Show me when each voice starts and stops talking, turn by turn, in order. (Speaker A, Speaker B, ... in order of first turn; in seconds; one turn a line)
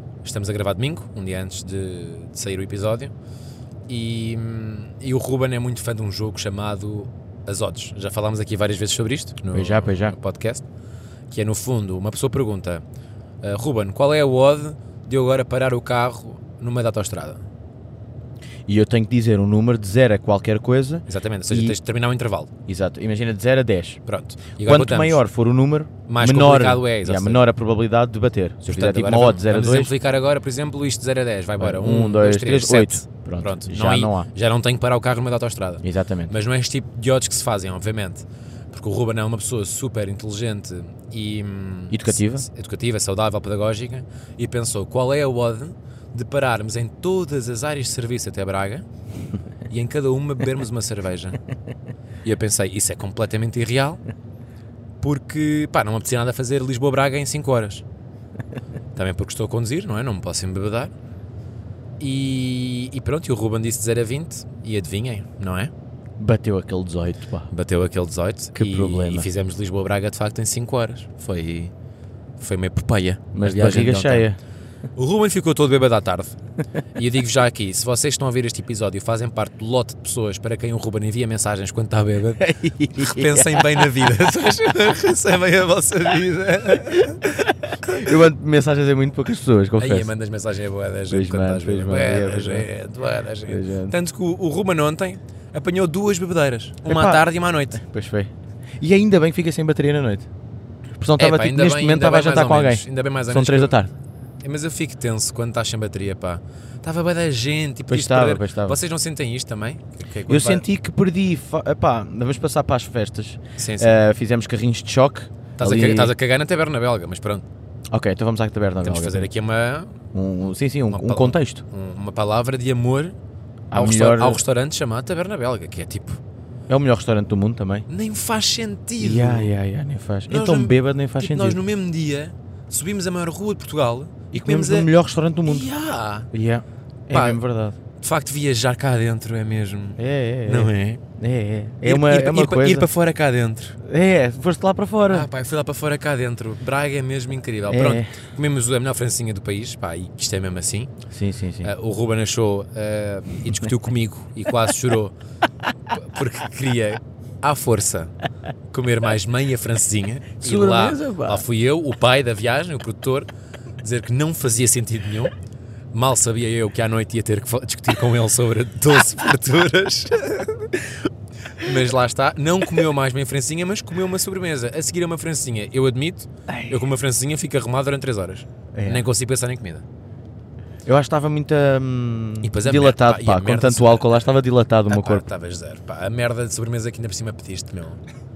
Speaker A: 0.2-3.1
Speaker A: 3.9-10.7
Speaker B: 9.5-10.2
Speaker A: 11.3-12.8
Speaker A: 13.4-17.4
Speaker B: 18.7-21.8
Speaker A: 21.1-22.5
Speaker B: 22.7-24.0
Speaker A: 24.1-25.2
Speaker B: 24.6-29.9
Speaker A: 26.1-27.4
Speaker A: 28.7-48.9
Speaker B: 31.6-34.3
Speaker B: 35.8-36.3
Speaker B: 41.9-42.5
Speaker A: 49.7-51.4
Speaker A: 52.2-54.0
Speaker A: 55.0-57.8
Speaker A: 58.9-60.9
Speaker A: 62.0-65.7
Speaker B: 66.2-67.5
Speaker A: 67.5-71.7
Speaker B: 68.5-69.3
Speaker A: 72.4-74.3
Speaker B: 73.3-74.4
Speaker A: 75.0-76.3
Speaker A: 76.9-82.4
Speaker B: 82.4-83.9
Speaker A: 83.0-87.2
Speaker B: 87.7-90.1
Speaker A: 89.8-97.8
Speaker B: 91.1-92.7
Speaker B: 93.5-93.9
Speaker B: 96.8-100.3
Speaker B: 101.0-103.9
Speaker A: 101.2-103.8
Speaker A: 104.4-110.6
Speaker B: 107.9-108.8
Speaker B: 110.3-116.1
Speaker A: 113.6-113.9
Speaker A: 115.6-117.4
Speaker B: 117.9-119.3
Speaker A: 118.8-120.0
Speaker B: 120.1-121.6
Speaker A: 120.9-123.2
Speaker B: 123.7-124.4
Speaker A: 123.7-126.2
Speaker B: 126.7-127.9
Speaker A: 127.9-129.5
Speaker B: 129.0-131.6
Speaker A: 130.3-134.9
Speaker B: 134.3-135.7
Speaker A: 135.4-136.3
Speaker B: 136.3-137.8
Speaker A: 137.1-137.4
Speaker A: 138.0-141.0
Speaker B: 140.0-142.9
Speaker A: 141.8-143.8
Speaker B: 143.8-145.3
Speaker A: 145.1-150.9
Speaker B: 147.7-148.1
Speaker B: 151.1-151.7
Speaker A: 151.6-155.1
Speaker A: 155.9-158.1
Speaker A: 158.7-163.3
Speaker B: 160.4-161.4
Speaker A: 163.8-165.3
Speaker A: 165.9-170.8
Speaker A: 171.6-179.8
Speaker B: 176.5-176.8
Speaker B: 178.7-179.1
Speaker B: 180.9-185.2
Speaker A: 182.4-184.3
Speaker A: 184.9-188.0